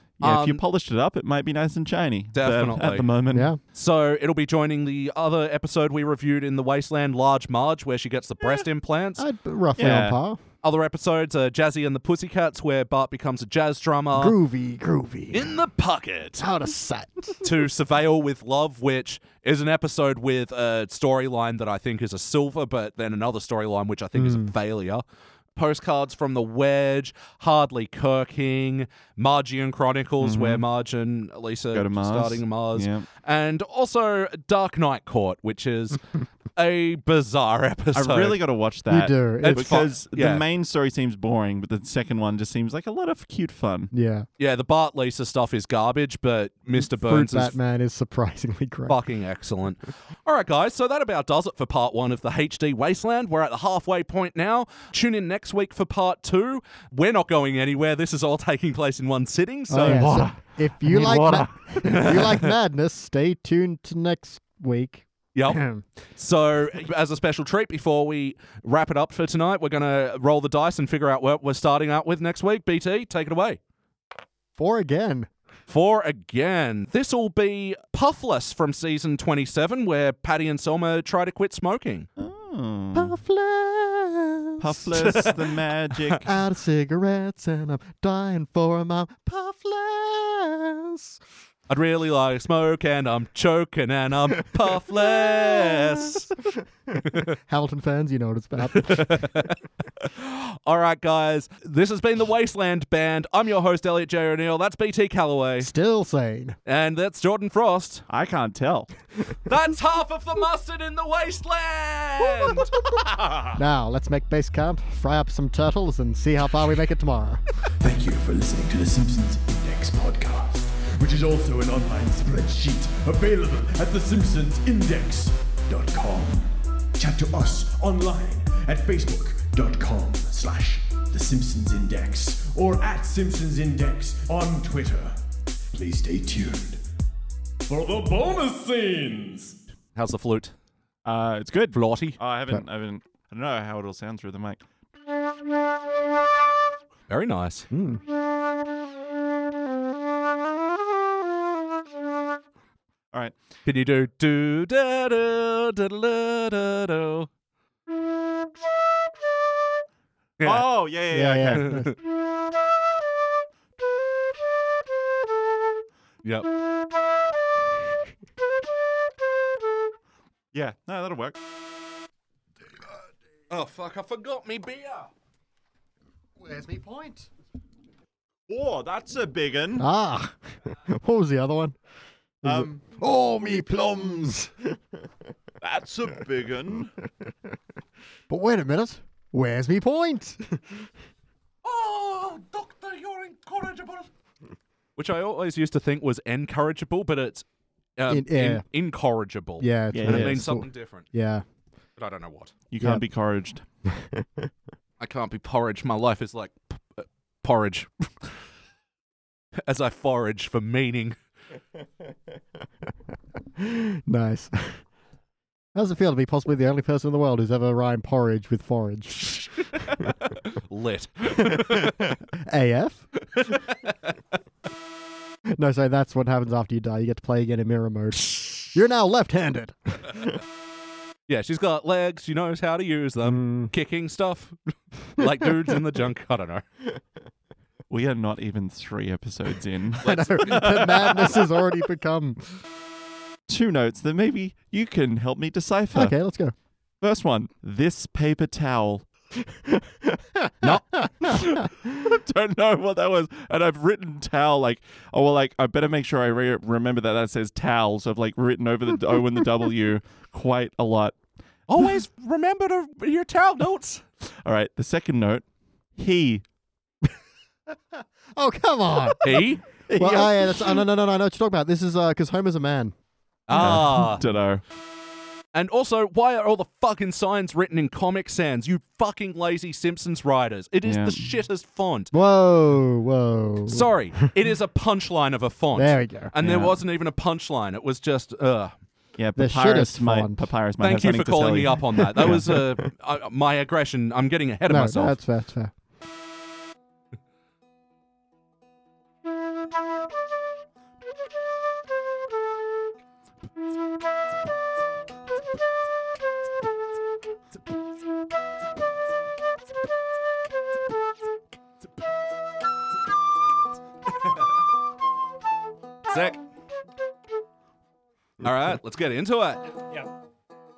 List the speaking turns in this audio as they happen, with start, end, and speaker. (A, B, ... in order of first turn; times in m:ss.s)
0:00.2-0:00.6 A
0:00.2-0:03.5 B
0:02.3-0:03.1 A
0:03.3-0:03.6 C
0:03.7-0:09.2 A
0:09.2-0:10.4 C
0:09.8-0:10.2 B
0:10.6-0:14.4 A
0:14.2-0:15.6 C
0:15.3-0:16.4 A
0:16.4-0:17.4 C
0:17.4-0:25.0 A
0:24.2-0:24.5 C
0:25.6-0:36.0 A
0:30.2-0:30.6 B
0:31.7-0:33.1 B
0:36.6-0:38.4 A
0:37.9-0:43.9 B
0:38.9-0:39.8 C
0:39.4-0:40.4 A
0:43.9-0:44.3 C
0:44.4-0:47.6 A
0:46.7-0:49.0 C
0:48.9-1:02.5 A
0:59.7-1:05.8 C
1:06.2-1:13.6 A
1:14.6-1:15.3 C
1:15.7-1:22.1 A
1:22.2-1:23.2 B
1:22.9-1:24.9 C
1:24.6-1:26.3 B
1:25.0-1:25.3 A
1:26.2-1:31.2 C
1:31.7-1:36.3 A
1:36.9-1:39.3 C
1:38.7-1:45.7 A
1:45.6-1:46.6 C
1:46.6-1:48.0 A
1:48.1-1:48.9 B
1:49.4-1:53.6 A
1:53.6-1:57.4 C
1:57.8-2:15.2 D
2:15.7-2:16.8 D
2:17.7-2:19.6 D
2:19.9-2:20.5 A
2:21.0-2:24.6 B
2:21.7-2:22.2 A
2:27.1-2:27.7 A
2:27.7-2:28.0 C
2:33.6-2:37.3 A
2:40.4-2:40.6 A
2:40.4-2:41.7 B
2:41.1-2:41.9 C
2:41.4-2:41.9 A
2:46.2-2:46.5 A
2:50.5-2:51.4 B
2:53.5-2:55.1 A
2:56.4-2:57.3 C
2:58.5-2:59.9 B
2:59.8-3:01.8 C
3:02.4-3:04.6 C
3:02.4-3:02.7 B
3:05.6-3:06.9 B
3:08.3-3:10.6 C
3:11.6-3:14.1 A
3:15.0-3:17.4 A
3:18.0-3:21.1 A
3:18.1-3:18.6 C
3:19.6-3:21.4 C
3:19.9-3:20.5 B
3:22.0-3:22.5 A
3:22.7-3:23.6 B
3:24.0-3:24.2 C
3:25.0-3:28.1 A
3:29.7-3:31.2 A
3:33.6-3:34.8 C
3:35.7-3:40.1 C
3:40.6-3:42.0 A
3:41.3-3:43.1 C
3:43.4-3:43.7 A
3:45.5-3:50.0 C
3:51.3-3:54.6 A
3:53.2-3:53.7 C
3:55.1-3:56.6 A
3:57.9-4:01.4 B
4:00.0-4:01.4 A
4:00.0-4:02.5 C
4:03.5-4:06.2 B
4:05.9-4:06.5 C
4:07.0-4:09.1 B
4:09.7-4:12.1 C
4:10.6-4:11.0 A
4:11.3-4:21.2 B
4:21.7-4:24.0 A
4:24.4-4:25.4 B
4:26.0-4:26.4 B
4:28.4-4:29.2 C
4:29.1-4:30.7 B
4:29.2-4:29.6 A
4:30.0-4:32.9 C
4:33.5-4:34.2 A
4:33.6-4:34.6 B
4:35.5-4:42.1 A
4:40.8-4:41.2 B
4:42.1-4:44.3 C
4:43.7-4:48.7 A
4:45.8-4:46.3 C
4:46.4-4:46.8 B
4:49.2-4:52.4 B
4:49.4-4:50.4 C
4:50.8-4:55.2 A
4:52.3-4:52.9 C
4:54.7-4:55.7 C
5:16.1-5:16.4 A
5:18.4-5:19.7 A